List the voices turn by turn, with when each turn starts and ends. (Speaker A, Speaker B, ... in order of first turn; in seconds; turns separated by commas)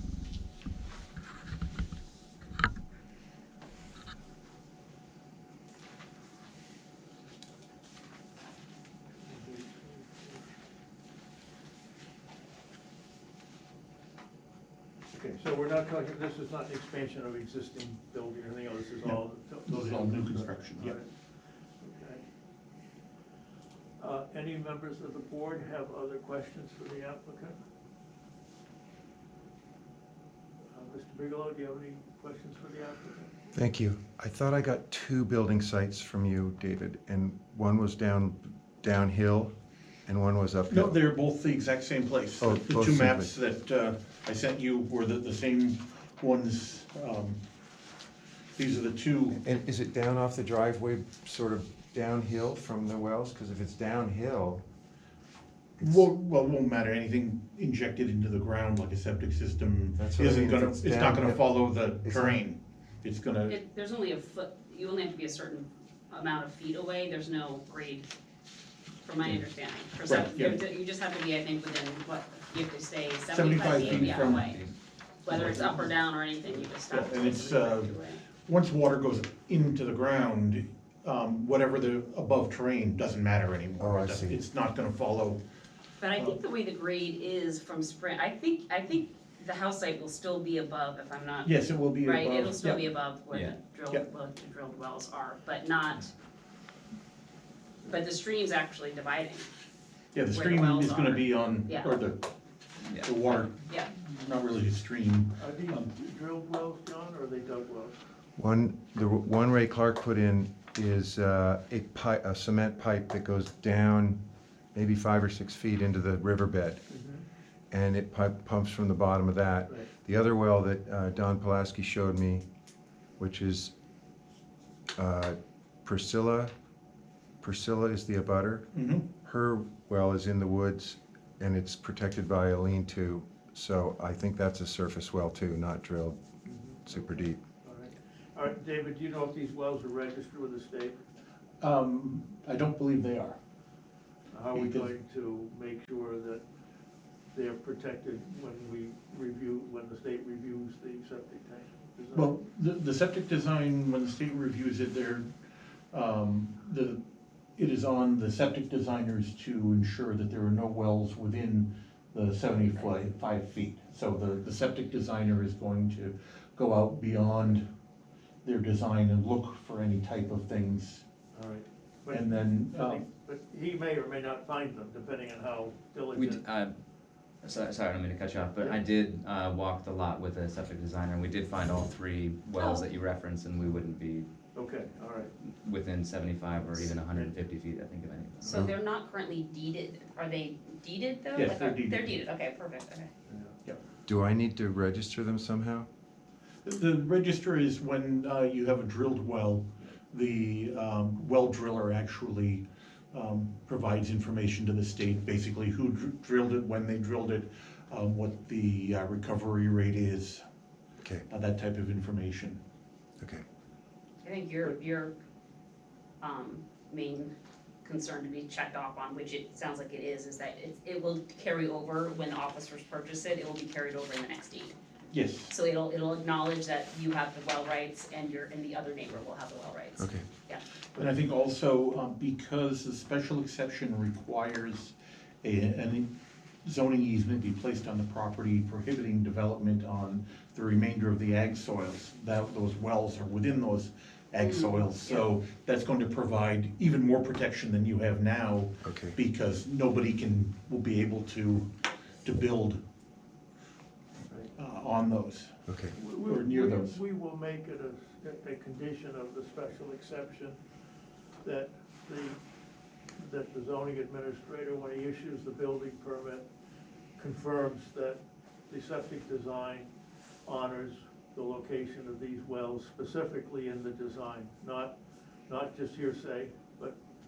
Speaker A: 9.2-10.5, Speaker A: 15.1-21.1, Speaker B: 19.0-21.0, Speaker A: 21.8-22.2, Speaker A: 24.0-27.6, Speaker A: 30.7-33.4, Speaker C: 33.5-39.5, Speaker C: 40.1-41.0, Speaker B: 40.7-47.4, Speaker C: 42.4-43.3, Speaker B: 48.6-49.4, Speaker C: 49.3-54.6, Speaker B: 55.8-63.6, Speaker C: 60.0-62.4, Speaker D: 63.5-68.1, Speaker D: 69.0-74.6, Speaker B: 70.1-70.6, Speaker B: 73.3-74.6, Speaker E: 73.6-74.7, Speaker D: 75.2-78.2, Speaker B: 75.3-75.9, Speaker B: 76.7-85.4, Speaker C: 83.8-84.4, Speaker D: 86.0-96.1, Speaker B: 91.4-92.8, Speaker D: 97.8-99.5, Speaker B: 100.1-102.3, Speaker D: 100.3-102.0, Speaker B: 102.9-105.9, Speaker A: 105.4-108.0, Speaker C: 108.4-114.2, Speaker C: 114.7-116.8, Speaker A: 116.9-117.2, Speaker C: 117.7-122.5, Speaker C: 123.2-123.7, Speaker C: 125.0-126.5, Speaker C: 127.4-136.2, Speaker B: 128.7-129.1, Speaker A: 136.4-141.0, Speaker C: 136.9-137.4, Speaker B: 141.6-143.4, Speaker A: 144.3-146.4, Speaker B: 144.5-144.9, Speaker A: 147.3-152.4, Speaker B: 152.1-155.3, Speaker B: 155.9-157.0, Speaker B: 157.6-167.7, Speaker B: 168.4-171.1, Speaker A: 171.3-176.5, Speaker B: 172.1-173.1, Speaker E: 176.1-176.8, Speaker E: 177.4-184.3, Speaker D: 182.6-182.8, Speaker A: 184.6-185.3, Speaker E: 185.4-188.7, Speaker D: 188.4-193.1, Speaker B: 191.3-192.2, Speaker A: 193.3-193.6, Speaker C: 194.1-195.9, Speaker B: 196.6-210.4, Speaker B: 211.3-212.6, Speaker D: 214.2-215.2, Speaker D: 216.2-217.3, Speaker D: 217.8-224.8, Speaker B: 225.1-225.5, Speaker D: 225.5-230.6, Speaker C: 230.0-230.3, Speaker B: 231.0-236.1, Speaker B: 236.6-251.7, Speaker D: 244.4-245.3, Speaker C: 248.8-249.2, Speaker B: 252.2-252.8, Speaker A: 254.3-254.6, Speaker B: 254.6-257.0, Speaker C: 255.7-255.9, Speaker A: 255.9-260.6, Speaker A: 261.4-262.4, Speaker A: 263.2-266.5, Speaker A: 267.2-269.9, Speaker A: 270.5-275.0, Speaker A: 275.5-277.0